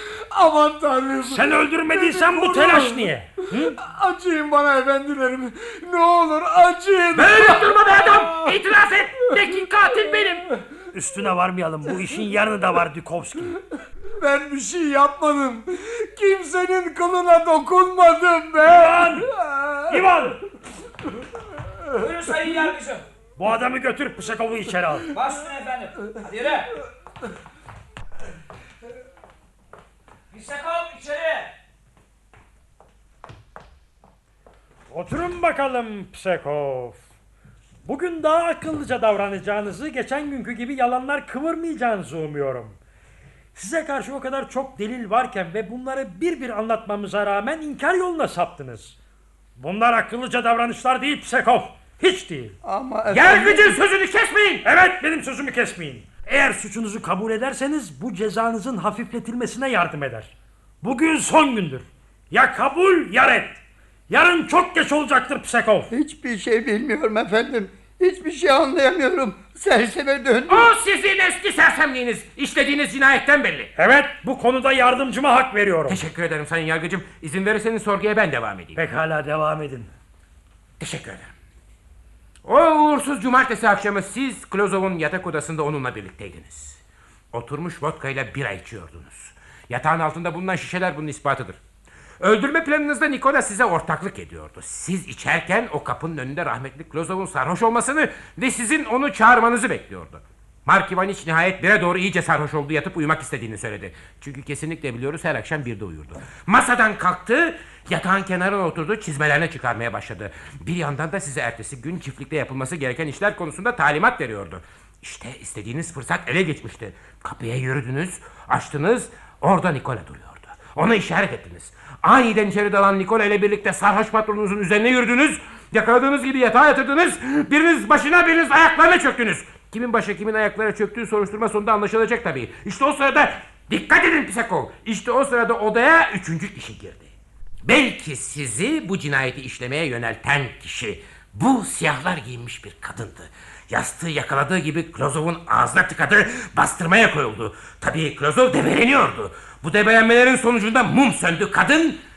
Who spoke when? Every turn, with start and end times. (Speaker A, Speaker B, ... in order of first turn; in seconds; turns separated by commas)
Speaker A: 0.6-1.2, Speaker B: 1.2-3.8, Speaker A: 3.9-7.1, Speaker C: 7.1-10.5, Speaker B: 10.9-13.6, Speaker A: 14.2-15.6, Speaker A: 16.1-18.8, Speaker B: 18.7-19.3, Speaker A: 19.4-19.8, Speaker B: 19.9-20.4, Speaker D: 21.9-23.0, Speaker B: 23.4-25.1, Speaker D: 25.1-26.7, Speaker D: 30.3-31.5, Speaker B: 34.9-37.0, Speaker B: 37.9-42.8, Speaker B: 43.5-49.0, Speaker B: 49.6-52.6, Speaker E: 52.6-53.8, Speaker C: 53.1-54.6, Speaker B: 54.6-65.9, Speaker E: 65.9-70.7, Speaker C: 70.5-73.7, Speaker B: 73.8-76.0, Speaker C: 75.9-78.8, Speaker B: 78.8-79.9, Speaker C: 80.8-81.3, Speaker C: 82.5-86.8, Speaker C: 87.3-91.6, Speaker C: 92.2-137.1, Speaker C: 137.6-152.0